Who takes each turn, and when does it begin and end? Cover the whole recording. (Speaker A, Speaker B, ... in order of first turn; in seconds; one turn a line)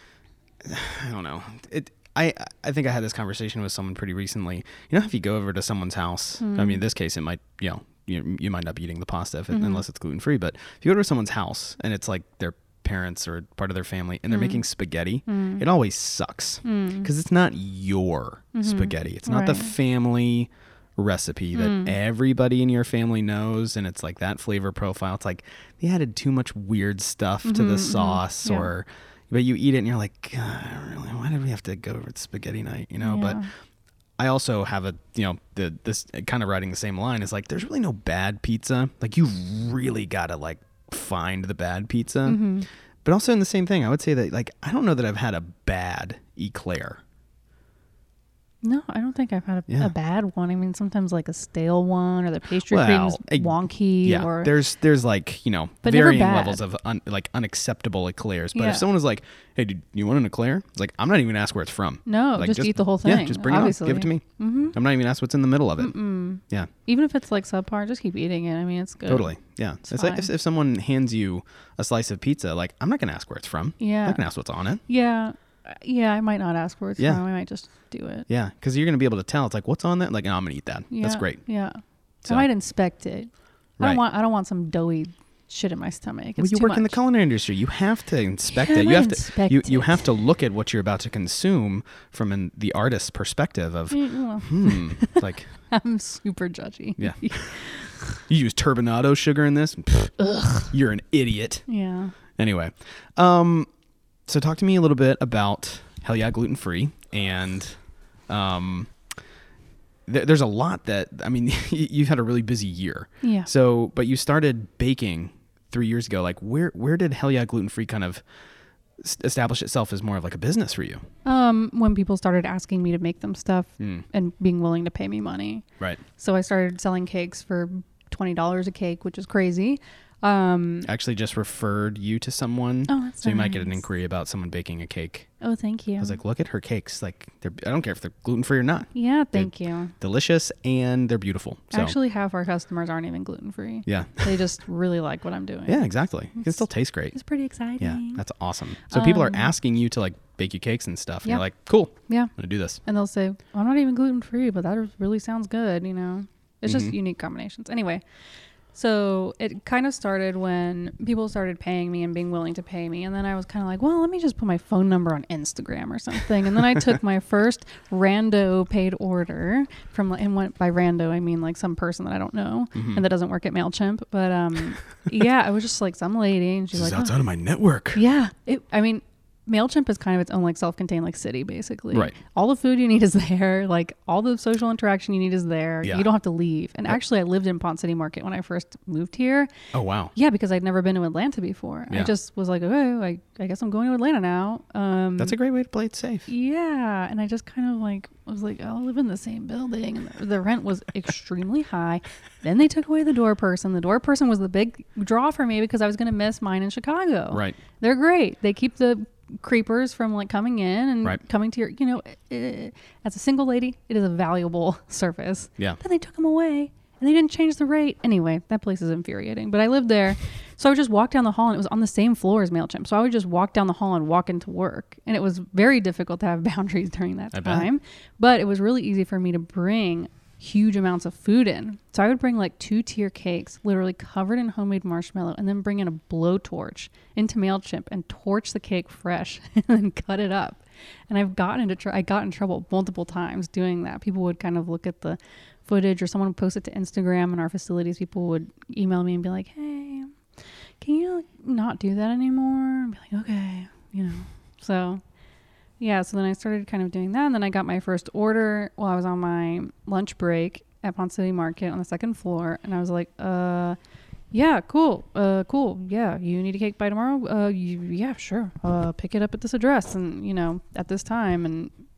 Speaker A: 0.6-33.4
Speaker B: 6.4-6.8
Speaker B: 9.5-9.8
Speaker B: 14.3-14.6
Speaker B: 15.2-15.6
Speaker B: 16.6-17.1
Speaker B: 18.5-19.7
Speaker B: 21.5-21.9
Speaker B: 27.4-28.7
Speaker B: 33.0-33.5
Speaker A: 34.2-42.4
Speaker B: 42.2-42.7
Speaker A: 43.0-47.0
Speaker B: 48.6-54.6
Speaker A: 52.7-66.7
Speaker B: 55.8-56.6
Speaker B: 58.5-58.8
Speaker B: 62.0-64.7
Speaker B: 65.8-69.3
Speaker A: 69.0-74.8
Speaker B: 69.9-70.3
Speaker B: 73.8-74.2
Speaker B: 74.9-78.3
Speaker A: 78.3-81.4
Speaker B: 80.9-87.0
Speaker A: 86.4-95.5
Speaker B: 88.5-90.1
Speaker B: 93.9-98.2
Speaker A: 97.0-97.5
Speaker A: 98.3-101.6
Speaker B: 101.7-102.1
Speaker A: 102.4-103.7
Speaker A: 104.3-108.9
Speaker A: 110.1-118.2
Speaker B: 113.2-113.5
Speaker A: 119.0-121.0
Speaker B: 121.2-125.6
Speaker B: 126.2-130.9
Speaker A: 130.8-135.3
Speaker B: 132.9-133.8
Speaker B: 135.4-136.2
Speaker A: 136.0-141.9
Speaker B: 138.9-139.9
Speaker B: 141.7-145.8
Speaker A: 143.9-144.4
Speaker A: 145.7-147.2
Speaker B: 146.3-146.6
Speaker B: 147.1-148.2
Speaker A: 147.8-152.8
Speaker B: 148.9-149.5
Speaker B: 152.8-158.0
Speaker A: 156.7-156.9
Speaker B: 158.7-177.1
Speaker A: 172.7-173.0
Speaker A: 176.7-178.0
Speaker B: 177.9-189.5
Speaker A: 189.7-190.1
Speaker B: 190.1-195.3
Speaker A: 195.2-196.3
Speaker B: 196.3-250.2
Speaker A: 227.3-227.7
Speaker B: 250.8-255.0
Speaker B: 255.8-263.8
Speaker B: 264.3-271.7